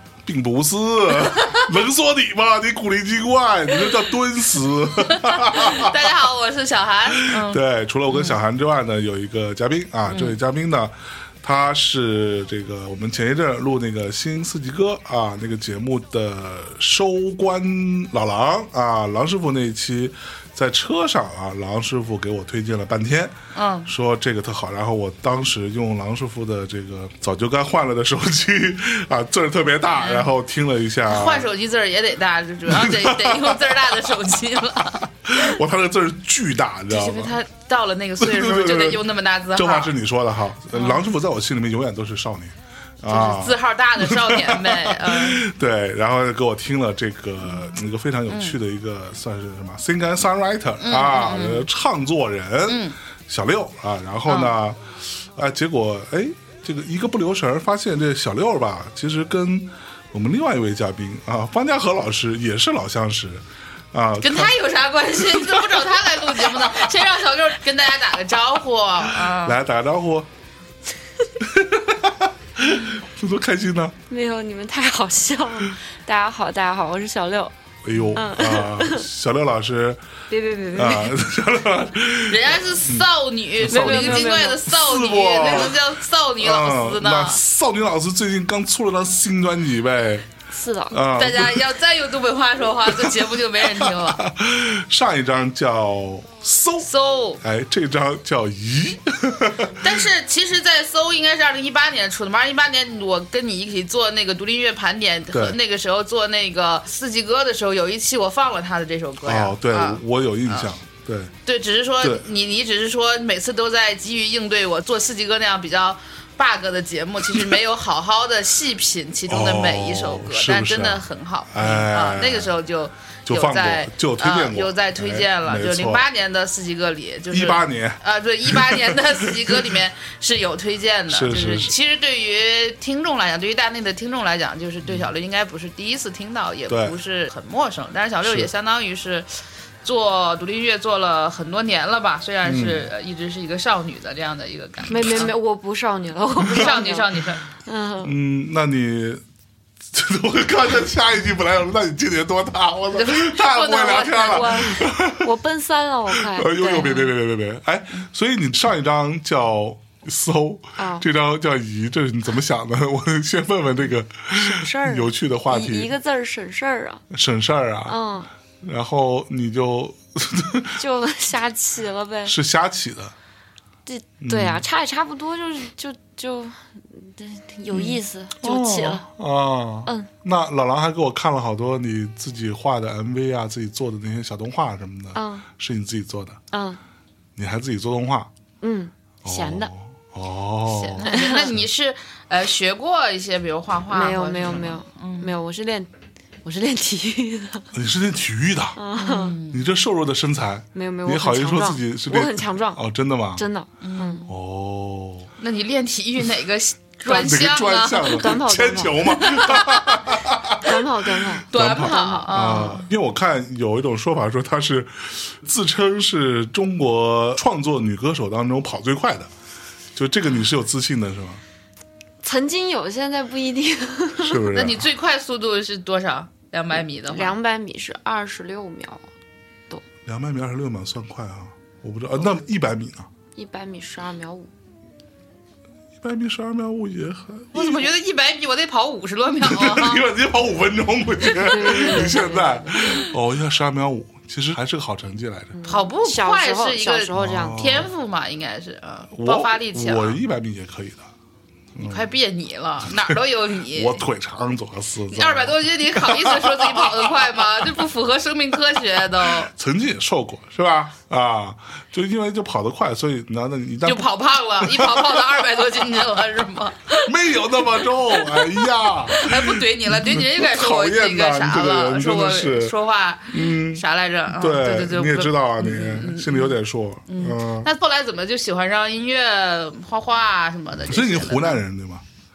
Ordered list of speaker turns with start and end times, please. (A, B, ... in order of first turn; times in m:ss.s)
0:00.2-0:06.1 A
0:05.1-0:08.4 B
0:07.1-0:31.5 A
0:10.1-0:10.4 B
0:23.5-0:23.9 B
0:30.0-0:30.3 B
0:31.1-0:35.1 B
0:32.6-0:34.1 A
0:35.2-0:37.4 A
0:36.9-0:39.9 B
0:38.2-1:04.6 A
0:40.7-0:41.1 B
0:43.1-0:45.4 B
0:47.4-0:48.6 B
0:50.8-0:51.7 B
0:52.7-0:53.0 B
0:54.3-0:54.6 B
1:04.2-1:09.6 B
1:05.1-1:05.8 A
1:06.5-1:06.7 A
1:09.2-1:10.3 A
1:11.4-1:14.0 A
1:14.1-1:17.5 C
1:17.8-1:20.0 A
1:18.1-1:19.0 C
1:20.3-1:21.2 C
1:20.7-1:23.1 A
1:22.3-1:27.4 B
1:23.6-1:25.9 A
1:23.7-1:24.6 C
1:26.4-1:30.3 A
1:30.5-1:31.0 C
1:30.9-1:31.6 A
1:31.1-1:34.2 B
1:32.8-1:36.9 A
1:36.8-1:37.4 B
1:37.4-1:40.0 A
1:39.8-1:50.7 B
1:45.3-1:45.6 A
1:49.2-1:51.3 A
1:51.4-2:19.3 B
1:59.3-2:02.5 A
2:03.2-2:06.0 A
2:07.3-2:09.8 A
2:11.1-2:11.7 A
2:14.8-2:15.1 A
2:16.7-2:17.0 A
2:18.2-2:18.5 A
2:19.8-2:25.3 B
2:22.4-2:22.9 A
2:24.9-2:28.2 C
2:25.0-2:25.2 A
2:26.4-2:26.7 A
2:26.5-2:27.4 B
2:28.0-2:29.2 A
2:29.9-2:35.3 A
2:32.9-2:34.7 B
2:34.3-2:37.1 C
2:36.1-2:45.9 A
2:40.8-2:41.0 C
2:44.3-2:47.0 C
2:47.1-2:48.0 A
2:47.8-2:48.3 C
2:48.6-2:50.8 A
2:50.8-2:52.4 C
2:52.2-2:53.1 A
2:53.8-2:59.1 C
2:54.2-2:54.6 A
2:57.7-3:06.4 A
3:05.1-3:05.5 C
3:06.5-3:06.8 C
3:07.4-3:08.3 A
3:08.6-3:09.7 C
3:09.2-3:11.6 A
3:10.7-3:15.3 B
3:11.0-3:11.5 C
3:13.9-3:15.9 C
3:16.4-3:17.7 C
3:17.7-3:18.8 A
3:18.8-3:19.4 C
3:19.0-3:19.6 B
3:19.5-3:23.5 A
3:20.7-3:22.8 C
3:23.4-3:24.3 C
3:23.8-3:24.2 B
3:24.2-3:25.3 A
3:25.4-3:28.4 B
3:27.0-3:27.4 C
3:27.0-3:39.3 A
3:28.1-3:29.2 C
3:29.0-3:30.1 B
3:30.6-3:32.2 C
3:31.5-3:32.9 B
3:39.9-3:41.4 A
3:42.2-3:44.5 C
3:44.2-3:44.9 A
3:44.5-3:47.4 B
3:47.1-3:49.0 C
3:50.0-3:53.1 A
3:53.3-3:54.5 C
3:56.0-3:57.9 A
3:57.5-4:00.0 B
3:59.4-4:05.6 A
4:01.3-4:02.9 C
4:01.9-4:02.2 B
4:05.5-4:07.6 C
4:05.6-4:10.2 B
4:07.1-4:07.9 A
4:09.1-4:11.0 A
4:11.7-4:12.1 A
4:11.8-4:14.0 B
4:12.8-4:17.8 A
4:15.1-4:19.5 B
4:19.2-4:25.8 A
4:23.8-4:27.1 B
4:26.9-4:32.7 A
4:27.7-4:41.6 B
4:33.3-4:37.7 A
4:40.8-4:42.0 A